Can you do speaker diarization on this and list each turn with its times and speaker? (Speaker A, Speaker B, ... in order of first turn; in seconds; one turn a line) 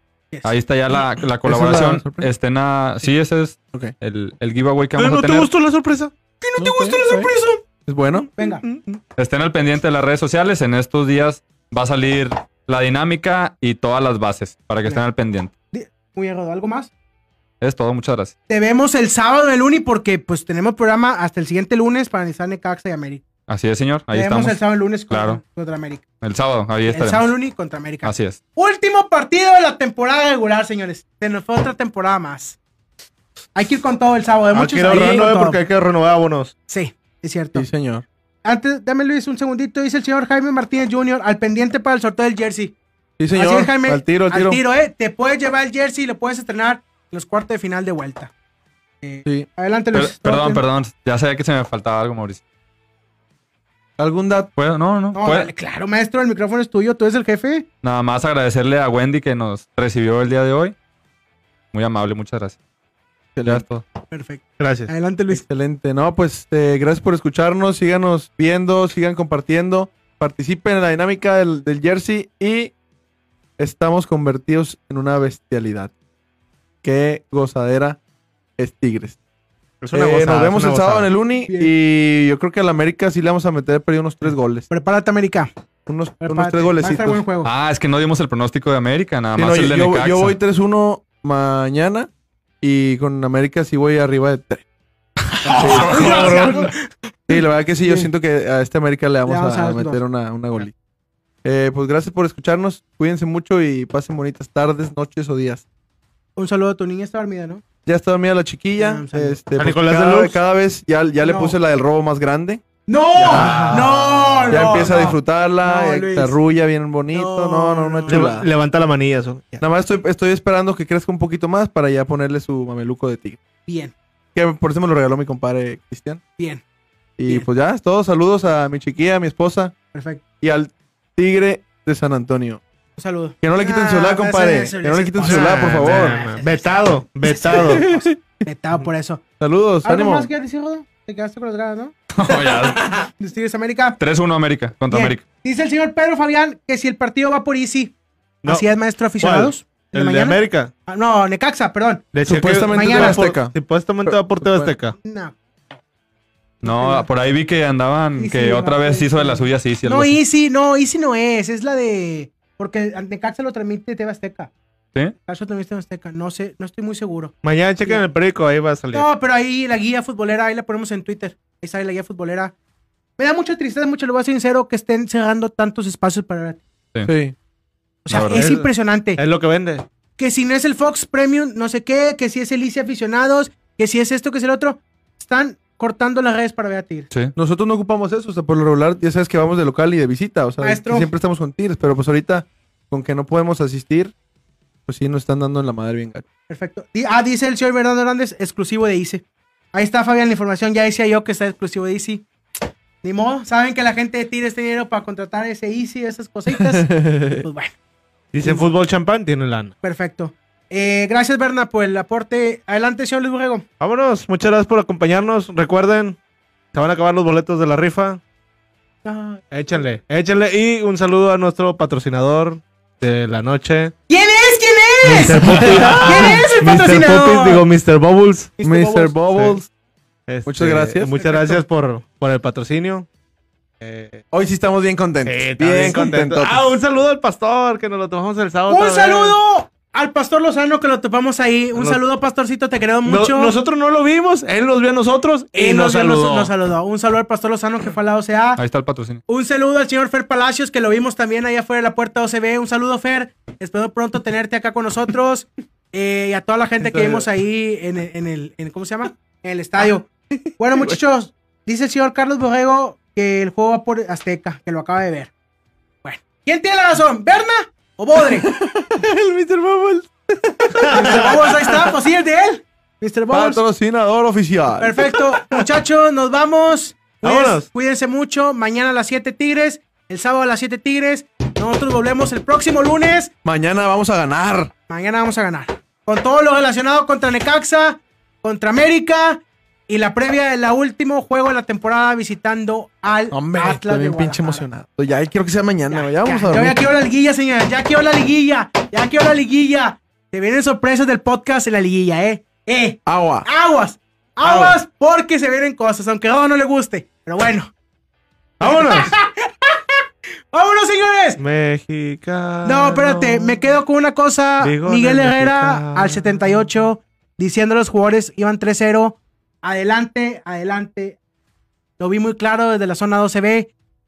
Speaker A: 0.3-0.6
Speaker B: 0.4-5.5
Speaker C: 1.4-2.3
Speaker D: 5.0-6.1
Speaker A: 6.4-7.6
Speaker C: 6.6-7.3
Speaker C: 7.8-8.3
Speaker A: 8.4-8.7
Speaker D: 8.4-8.8
Speaker B: 9.2-15.5
Speaker A: 15.7-16.9
Speaker B: 17.6-18.3
Speaker A: 18.5-23.2
Speaker B: 23.5-24.6
Speaker A: 24.1-26.0
Speaker B: 25.1-25.4
Speaker B: 26.2-27.3
Speaker A: 26.9-32.6
Speaker B: 28.0-28.4
Speaker A: 33.5-35.6
Speaker D: 34.5-36.5
Speaker C: 34.9-35.3
Speaker A: 36.7-37.7
Speaker C: 37.5-38.0
Speaker A: 38.4-42.7
Speaker C: 43.2-44.6
Speaker A: 43.3-48.3
Speaker A: 49.0-50.6
Speaker B: 49.9-52.4
Speaker C: 54.0-54.5
Speaker B: 54.6-55.5
Speaker A: 55.1-57.6
Speaker B: 57.8-60.7
Speaker B: 61.7-62.5
Speaker C: 63.4-63.6
Speaker B: 63.5-63.8
Speaker A: 64.1-65.4
Speaker D: 64.6-64.9
Speaker C: 65.3-72.7
Speaker C: 73.6-75.9
Speaker C: 76.8-78.0
Speaker C: 78.6-79.2
Speaker D: 79.8-81.1
Speaker C: 79.9-84.7
Speaker A: 81.5-81.7
Speaker A: 84.7-85.5
Speaker C: 85.9-87.2
Speaker A: 86.2-87.5
Speaker B: 87.4-90.3
Speaker C: 89.3-92.1
Speaker C: 92.6-94.6
Speaker B: 95.3-96.5
Speaker A: 95.4-96.7
Speaker C: 95.5-96.5
Speaker D: 95.6-96.7
Speaker C: 97.3-100.7
Speaker A: 97.3-98.1
Speaker A: 99.2-100.0
Speaker C: 101.4-105.6
Speaker A: 106.3-107.6
Speaker C: 107.8-112.6
Speaker A: 108.8-109.4
Speaker D: 109.5-110.4
Speaker A: 111.2-111.6
Speaker A: 112.9-116.4
Speaker C: 113.1-118.5
Speaker D: 113.3-115.1
Speaker A: 117.1-118.3
Speaker D: 118.1-119.6
Speaker C: 119.6-123.4
Speaker A: 123.7-123.9
Speaker C: 124.3-126.2
Speaker C: 127.2-129.7
Speaker A: 129.9-130.2
Speaker C: 130.4-132.6
Speaker A: 133.0-139.2
Speaker C: 133.4-136.2
Speaker D: 135.2-137.8
Speaker C: 137.4-138.1
Speaker C: 139.4-140.3
Speaker A: 139.8-141.9
Speaker B: 142.1-143.1
Speaker A: 143.2-144.0
Speaker B: 144.0-145.2
Speaker A: 144.9-147.9
Speaker A: 148.4-152.1
Speaker D: 149.2-150.7
Speaker D: 152.1-155.0
Speaker C: 152.2-154.7
Speaker A: 152.7-153.2
Speaker A: 155.0-155.3
Speaker A: 156.6-157.1
Speaker B: 156.6-160.2
Speaker A: 158.2-164.5
Speaker A: 165.3-168.0
Speaker D: 167.4-169.1
Speaker A: 168.9-172.5
Speaker A: 173.2-176.6
Speaker C: 177.0-177.3
Speaker A: 178.0-179.2
Speaker B: 178.1-178.5
Speaker D: 178.3-179.8
Speaker A: 180.2-187.1
Speaker C: 187.3-194.1
Speaker A: 190.6-191.1
Speaker C: 194.9-196.2
Speaker A: 196.5-202.2
Speaker A: 203.0-207.7
Speaker C: 206.5-207.4
Speaker D: 208.3-209.7
Speaker A: 208.4-208.7
Speaker A: 209.8-213.6
Speaker D: 213.8-216.2
Speaker D: 216.7-218.2
Speaker A: 219.0-219.4
Speaker D: 219.5-223.9
Speaker A: 224.1-227.6
Speaker D: 225.0-228.5
Speaker C: 225.5-226.3
Speaker A: 228.6-229.2
Speaker C: 228.6-229.7
Speaker D: 229.3-229.6
Speaker D: 230.3-233.1
Speaker C: 230.4-231.1
Speaker A: 231.2-231.6
Speaker D: 233.8-234.2
Speaker C: 234.3-236.7
Speaker D: 235.2-239.4
Speaker A: 238.7-243.5
Speaker D: 243.0-246.5
Speaker A: 245.5-248.6
Speaker B: 248.6-249.2
Speaker A: 249.3-265.3
Speaker C: 256.8-257.2
Speaker A: 266.0-268.5
Speaker C: 268.6-270.0
Speaker D: 269.0-270.1
Speaker D: 270.7-271.9
Speaker A: 270.9-273.6
Speaker C: 273.3-275.1
Speaker A: 274.8-283.3
Speaker D: 277.2-277.7
Speaker C: 283.4-284.7
Speaker A: 284.9-294.6
Speaker C: 293.3-296.8
Speaker A: 295.9-307.7
Speaker C: 303.1-303.5
Speaker D: 308.6-309.1
Speaker A: 308.6-309.9
Speaker A: 310.5-311.4
Speaker D: 311.4-313.8
Speaker A: 312.6-321.2
Speaker D: 314.6-316.7
Speaker A: 322.0-323.7